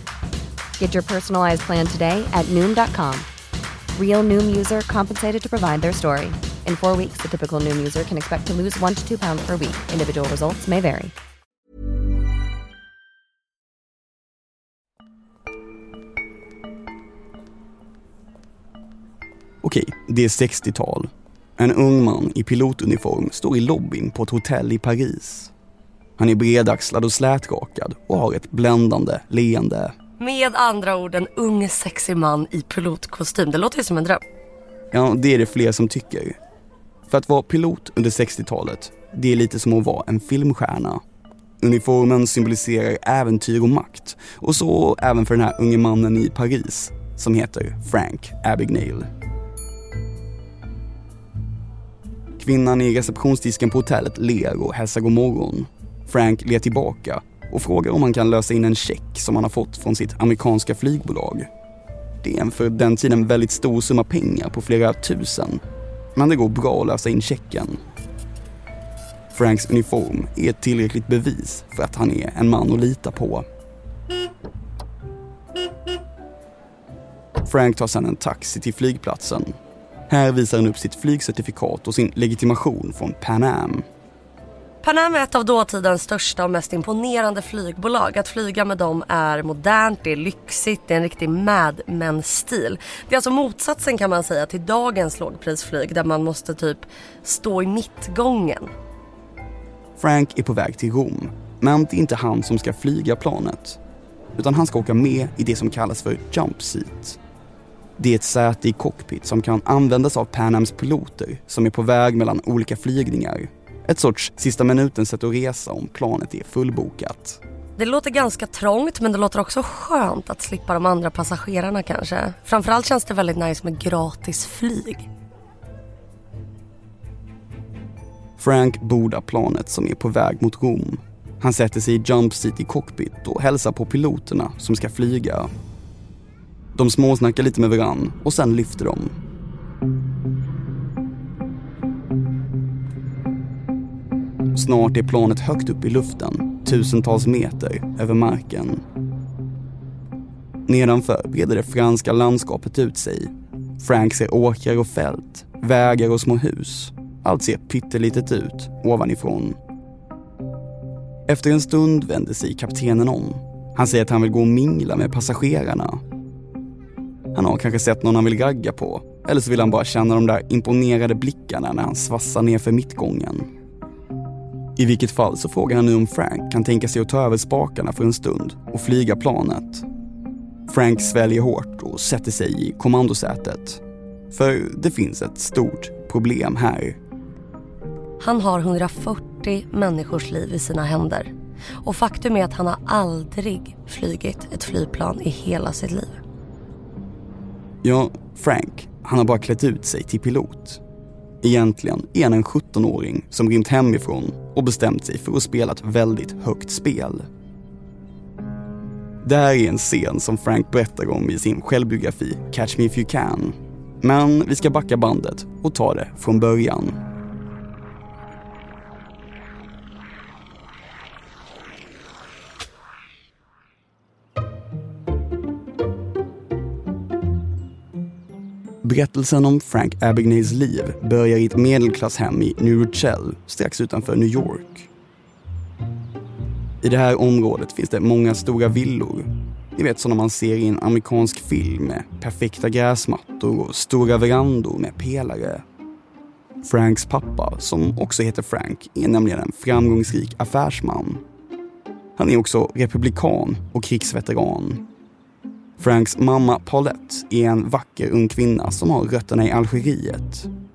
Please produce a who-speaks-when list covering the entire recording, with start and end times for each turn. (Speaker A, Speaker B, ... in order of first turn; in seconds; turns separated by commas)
Speaker A: 0.8-3.3, Speaker A: 4.0-11.1, Speaker B: 19.6-25.5, Speaker B: 26.2-29.9, Speaker C: 30.2-34.2, Speaker B: 34.9-36.4, Speaker B: 37.1-41.0, Speaker B: 41.6-49.1, Speaker B: 52.4-61.5, Speaker B: 62.2-65.6, Speaker B: 66.2-67.8, Speaker B: 69.3-73.5, Speaker B: 77.4-79.6, Speaker B: 80.1-83.9, Speaker C: 84.8-98.7, Speaker B: 100.0-103.8, Speaker B: 104.4-107.2, Speaker B: 108.0-117.4, Speaker C: 117.8-125.1, Speaker B: 128.4-135.5, Speaker B: 136.8-139.1, Speaker B: 144.5-148.8, Speaker B: 150.7-159.6, Speaker B: 161.3-166.0, Speaker B: 167.3-173.5, Speaker B: 174.8-179.8, Speaker B: 180.7-187.0, Speaker C: 188.2-191.3, Speaker C: 191.8-196.2, Speaker B: 197.8-200.8, Speaker B: 201.4-207.3, Speaker B: 209.2-217.0, Speaker B: 228.8-234.9, Speaker B: 236.8-245.6, Speaker B: 246.6-251.2, Speaker B: 252.2-254.8, Speaker B: 255.8-260.5